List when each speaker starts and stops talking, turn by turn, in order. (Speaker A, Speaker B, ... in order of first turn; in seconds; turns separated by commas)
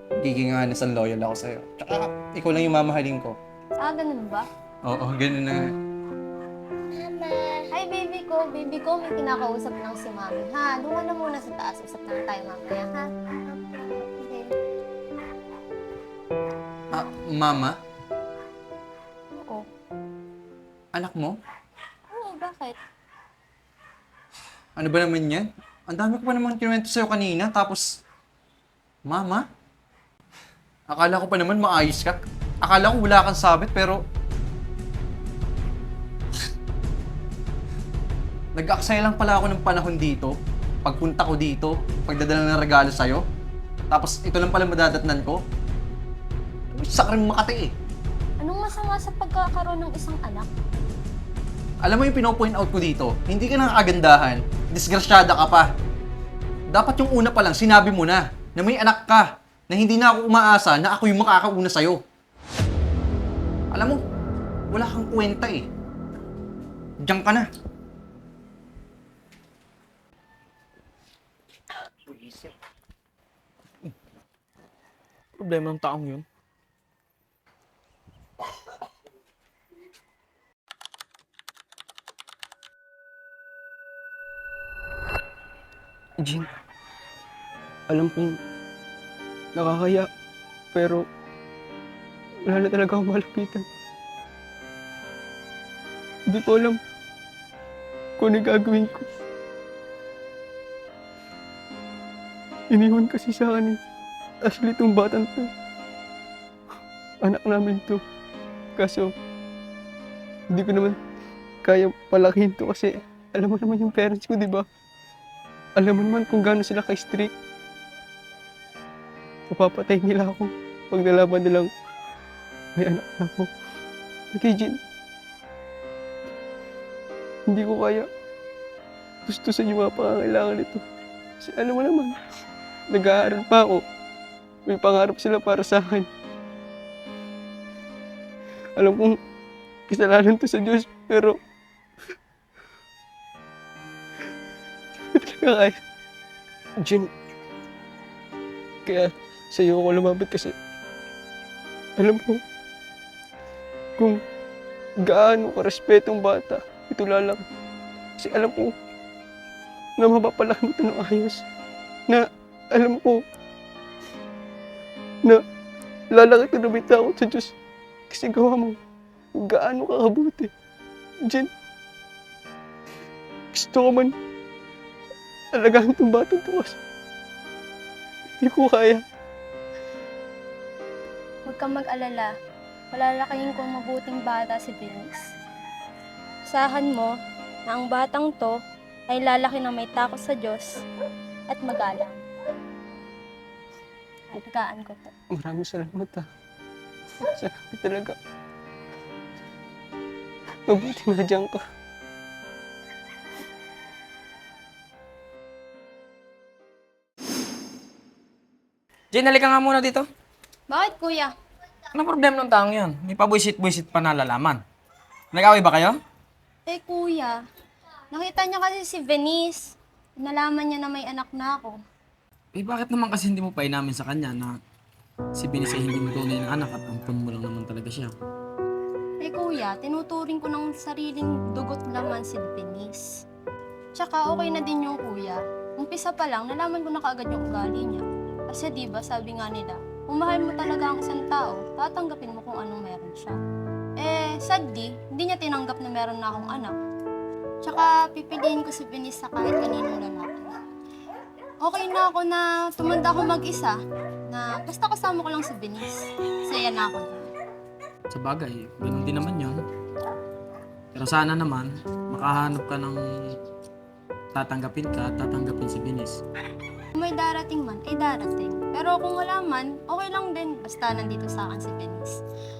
Speaker A: 0.2-3.4, Speaker B: 3.8-4.5, Speaker A: 4.8-5.7, Speaker B: 6.9-14.5, Speaker A: 16.9-17.8, Speaker A: 20.9-21.4, Speaker B: 22.1-22.8, Speaker A: 24.8-27.8, Speaker A: 29.1-29.4, Speaker A: 30.9-34.0, Speaker A: 38.6-40.3, Speaker A: 40.9-43.2, Speaker A: 43.9-45.4, Speaker A: 46.7-47.7, Speaker B: 48.4-50.5, Speaker A: 51.8-55.7, Speaker A: 56.7-62.0, Speaker A: 63.7-64.0, Speaker A: 64.7-65.7, Speaker A: 67.0-67.5, Speaker C: 75.4-76.2, Speaker D: 86.2-86.5, Speaker D: 87.9-88.4, Speaker D: 89.5-90.1, Speaker D: 90.7-91.0, Speaker D: 92.5-93.7, Speaker D: 96.3-96.8, Speaker D: 98.2-99.1, Speaker D: 102.7-103.8, Speaker D: 104.5-105.5, Speaker D: 107.2-108.0, Speaker D: 108.8-109.1, Speaker D: 110.5-111.0, Speaker D: 111.6-114.7, Speaker D: 115.8-117.3, Speaker D: 119.5-121.7, Speaker D: 122.8-123.5, Speaker D: 124.3-124.8, Speaker D: 127.5-128.1, Speaker D: 129.3-130.8, Speaker D: 131.4-132.2, Speaker D: 132.9-133.8, Speaker D: 134.7-136.1, Speaker D: 138.8-139.2, Speaker D: 139.9-141.4, Speaker D: 145.1-145.8, Speaker D: 146.8-147.1, Speaker D: 148.9-150.6, Speaker D: 152.0-152.4, Speaker D: 155.0-157.4, Speaker D: 158.2-158.7, Speaker D: 160.0-161.4, Speaker D: 162.1-163.2, Speaker D: 166.1-167.5, Speaker D: 168.1-168.8, Speaker D: 169.4-170.5, Speaker D: 173.5-174.1, Speaker D: 175.5-176.8, Speaker D: 178.4-179.0, Speaker B: 181.5-182.3, Speaker B: 182.9-185.2, Speaker B: 186.5-187.1, Speaker B: 187.7-188.6, Speaker B: 189.1-190.8, Speaker B: 191.5-192.2, Speaker B: 194.3-195.1, Speaker D: 195.3-196.3, Speaker D: 197.2-198.2, Speaker D: 200.7-201.6, Speaker C: 209.1-210.1, Speaker B: 210.7-211.3, Speaker C: 211.9-214.6, Speaker C: 215.3-216.0, Speaker B: 216.7-217.4, Speaker B: 218.1-221.8, Speaker C: 222.5-224.6, Speaker C: 225.3-228.2, Speaker B: 229.2-233.1, Speaker B: 234.0-243.4, Speaker B: 244.0-246.8, Speaker B: 247.6-250.5, Speaker B: 251.6-253.8, Speaker B: 254.3-255.9, Speaker B: 256.4-257.3, Speaker C: 258.1-259.6, Speaker C: 260.9-263.4, Speaker C: 264.3-266.2, Speaker B: 267.0-272.2